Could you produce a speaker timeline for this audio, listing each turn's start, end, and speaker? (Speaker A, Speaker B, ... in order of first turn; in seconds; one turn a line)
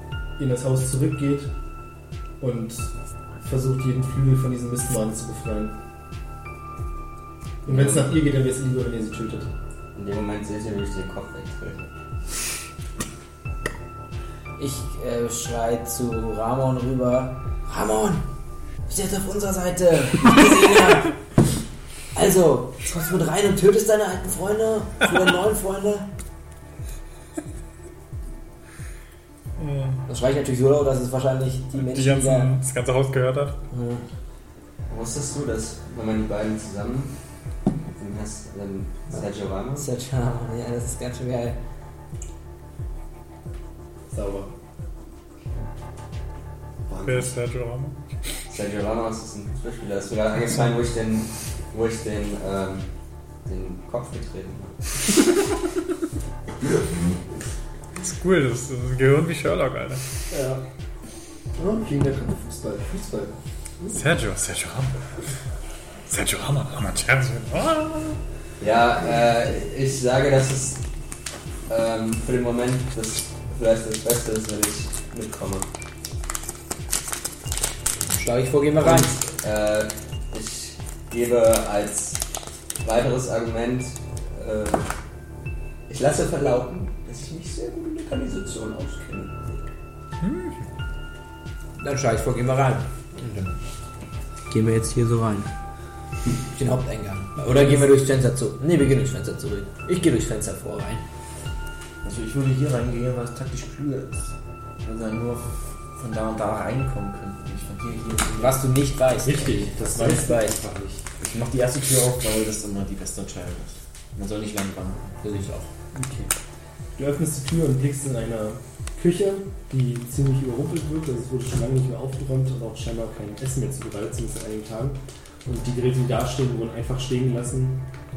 Speaker A: 0.4-1.5
Speaker A: 2.4-2.9
Speaker A: 3.4-5.7
Speaker B: 7.7-8.1
Speaker A: 7.7-9.5
Speaker B: 9.9-11.9
Speaker C: 14.6-18.2
Speaker C: 18.9-21.2
Speaker C: 22.1-26.1
Speaker D: 29.6-30.0
Speaker C: 30.1-32.5
Speaker D: 31.8-33.5
Speaker C: 33.7-34.0
Speaker B: 34.9-37.1
Speaker B: 38.0-39.9
Speaker C: 39.1-41.6
Speaker A: 44.1-44.5
Speaker A: 46.9-47.3
Speaker D: 47.0-48.0
Speaker B: 48.5-52.9
Speaker B: 53.5-54.8
Speaker D: 58.0-60.0
Speaker A: 60.3-60.6
Speaker A: 61.6-63.9
Speaker D: 63.9-65.0
Speaker D: 66.1-68.2
Speaker B: 68.6-70.8
Speaker B: 71.7-75.7
Speaker C: 78.0-79.2
Speaker B: 78.8-82.2
Speaker B: 82.8-84.8
Speaker B: 85.9-89.3
Speaker D: 90.2-90.6
Speaker C: 91.8-93.5
Speaker C: 94.5-95.5
Speaker C: 96.5-101.0
Speaker E: 102.0-104.3
Speaker E: 104.8-108.6
Speaker C: 108.3-110.6
Speaker A: 109.2-111.0
Speaker E: 111.2-115.1
Speaker C: 115.2-115.7
Speaker A: 115.9-116.3
Speaker A: 117.0-127.8